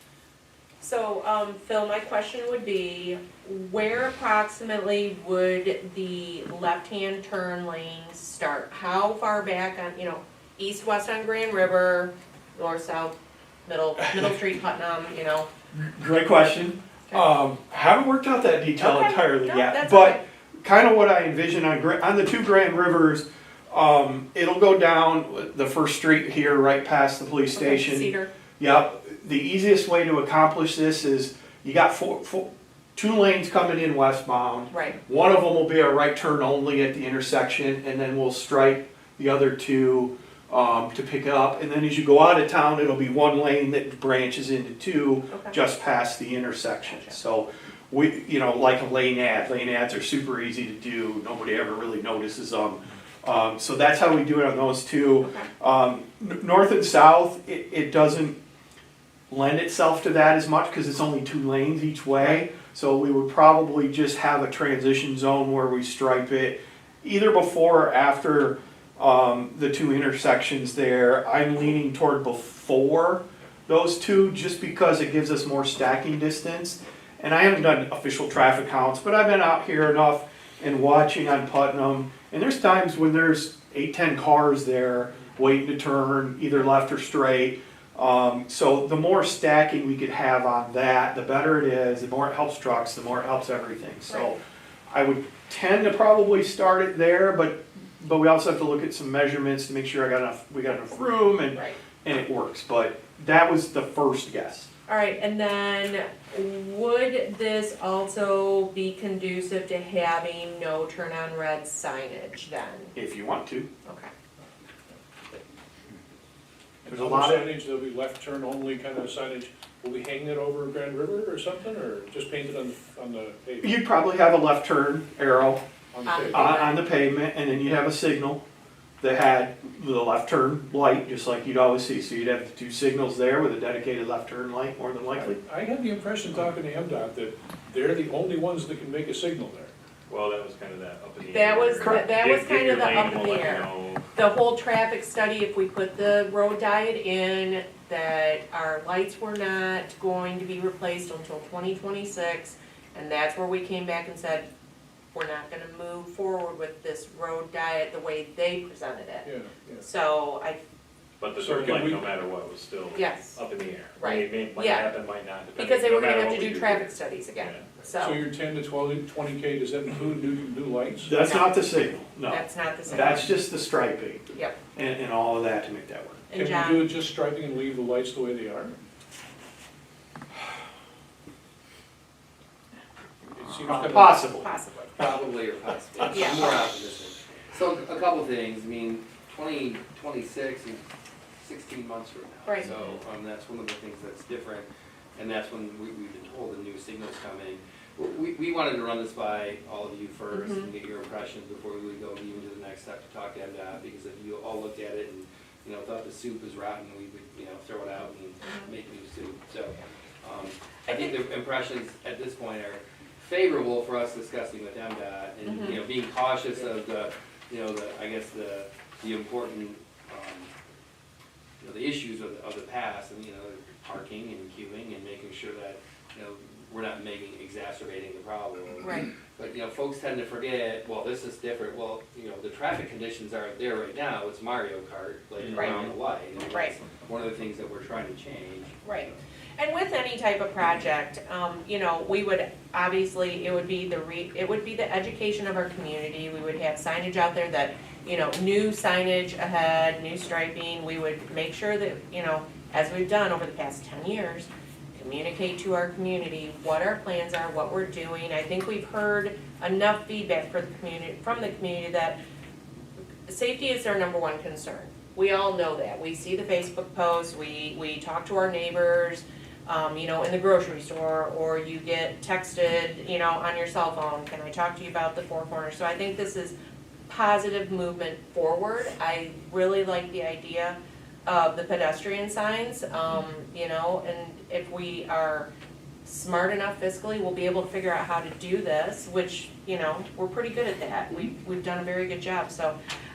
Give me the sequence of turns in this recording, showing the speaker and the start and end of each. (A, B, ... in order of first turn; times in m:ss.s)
0:00.8-0:15.5 A
0:15.7-0:58.4 B
0:18.8-0:20.2 A
0:27.5-0:28.3 A
0:34.7-0:35.0 A
0:45.3-0:45.6 A
0:46.8-0:47.2 A
0:55.2-0:55.5 A
0:59.3-1:44.7 B
1:02.2-1:02.4 A
1:34.1-1:34.4 A
1:44.9-1:52.9 A
1:52.9-1:53.7 B
1:53.8-1:54.1 A
1:56.8-2:03.7 C
1:56.9-1:57.5 B
2:03.6-2:05.6 B
2:05.9-2:06.6 C
2:06.0-2:06.8 A
2:06.3-2:08.4 B
2:09.0-2:15.4 B
2:15.1-2:19.7 C
2:20.1-2:24.0 D
2:21.3-2:34.5 A
2:35.1-2:40.6 A
2:39.2-2:39.8 C
2:41.2-2:47.7 D
2:41.4-2:42.1 C
2:42.9-2:43.4 A
2:44.0-2:44.9 A
2:45.5-2:48.2 A
2:48.0-2:51.1 C
2:51.0-2:54.2 B
2:51.2-2:51.7 A
2:52.3-2:53.4 A
2:52.9-2:53.2 C
2:54.7-2:56.2 B
2:56.3-2:56.9 A
2:56.3-2:58.7 C
3:03.3-3:04.1 C
3:03.7-3:04.5 B
3:03.8-3:05.1 A
3:05.0-3:10.8 E
3:06.1-3:06.5 A
3:11.4-3:40.5 E
3:12.4-3:12.7 A
3:20.3-3:20.7 A
3:28.4-3:28.7 A
3:30.8-3:31.2 A
3:35.4-3:35.8 A
3:41.6-3:59.2 E
3:48.8-3:49.1 A
3:55.4-3:55.9 D
3:55.5-3:56.7 A
3:58.8-4:22.2 A
4:23.2-4:36.5 A
4:37.1-4:45.5 A
4:46.0-4:52.7 A